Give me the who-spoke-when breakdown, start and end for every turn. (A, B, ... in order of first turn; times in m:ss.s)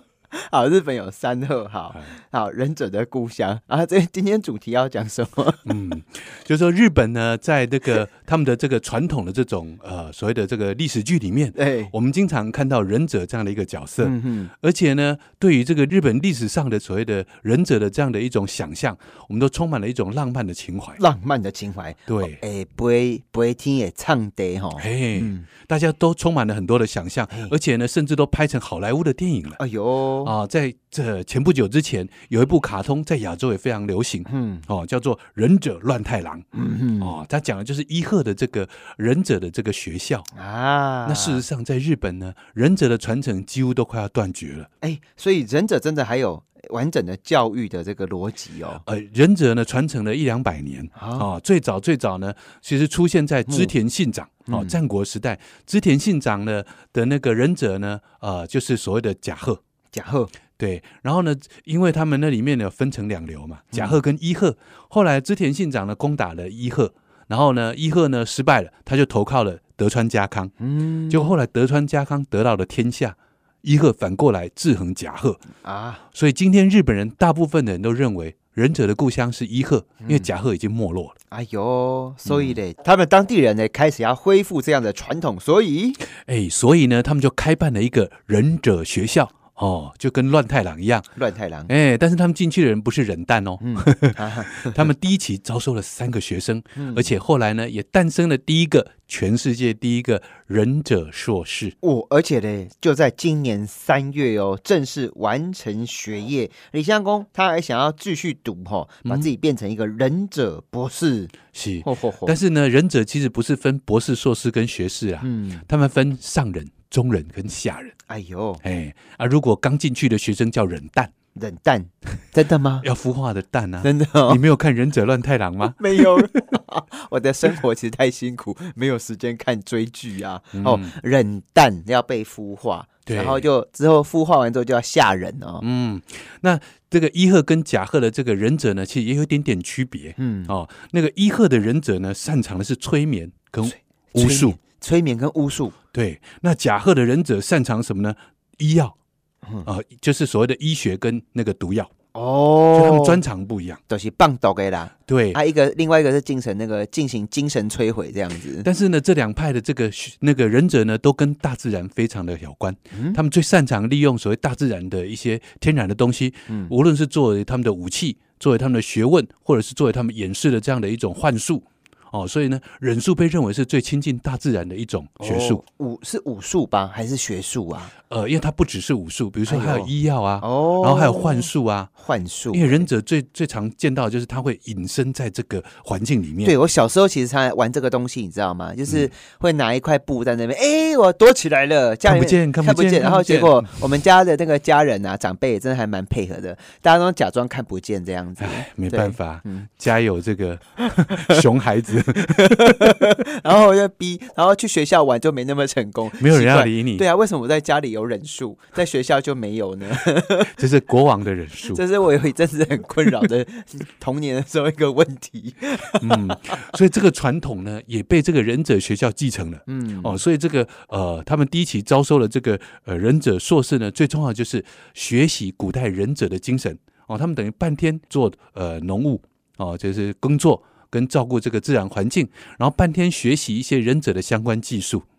0:00.3-0:05.7 A
0:05.7-0:21.0 B
0:11.6-0:11.9 A
0:14.0-0:14.5 A
0:21.0-0:25.5 A
0:22.1-0:22.4 B
0:24.8-0:29.6 B
0:29.6-0:30.3 A
0:30.2-0:36.4 B
0:34.3-0:34.6 A
0:36.5-0:37.2 A
0:37.0-0:40.3 B
0:40.3-0:41.4 A
0:41.0-0:44.7 B
0:44.8-0:48.8 A
0:48.9-0:59.6 B
0:51.0-0:51.3 A
0:53.5-0:53.7 A
0:54.5-0:54.8 A
0:59.9-1:00.3 A
1:00.6-1:10.5 B
1:10.6-1:11.3 A
1:11.1-1:15.4 B
1:15.6-1:16.0 A
1:16.1-1:21.1 B
1:20.0-1:20.3 A
1:21.3-1:26.0 A
1:22.3-1:22.6 B
1:26.2-1:31.1 B
1:31.2-1:31.7 A
1:31.7-1:41.7 B
1:33.6-1:34.9 A
1:36.8-1:37.2 A
1:41.8-1:52.4 A
1:51.5-1:58.0 B
1:55.2-1:55.6 A
1:58.1-1:58.6 A
1:58.6-2:01.1 B
2:01.4-2:02.9 A
2:02.8-2:06.4 B
2:03.8-2:04.4 A
2:05.7-2:15.6 A
2:10.6-2:10.9 B
2:13.1-2:13.5 B
2:15.6-2:24.6 B
2:20.2-2:20.5 A
2:23.6-2:25.8 A
2:25.9-2:28.9 B
2:29.6-2:31.9 B
2:32.2-2:33.2 A
2:32.8-2:33.8 B
2:33.9-2:38.7 A
2:35.1-2:35.4 B
2:38.6-2:55.6 B
2:42.9-2:43.2 A
2:55.2-2:57.9 A
2:58.1-3:01.9 B
2:59.5-3:02.9 A
3:02.5-3:06.5 B
3:06.4-3:19.7 A
3:12.0-3:13.7 B
3:18.4-3:23.0 B
3:21.0-3:21.4 A
3:22.1-3:30.6 A
3:26.2-3:27.0 B
3:30.6-3:31.8 B
3:31.7-3:36.6 A
3:36.0-3:55.0 B
3:39.7-3:40.2 A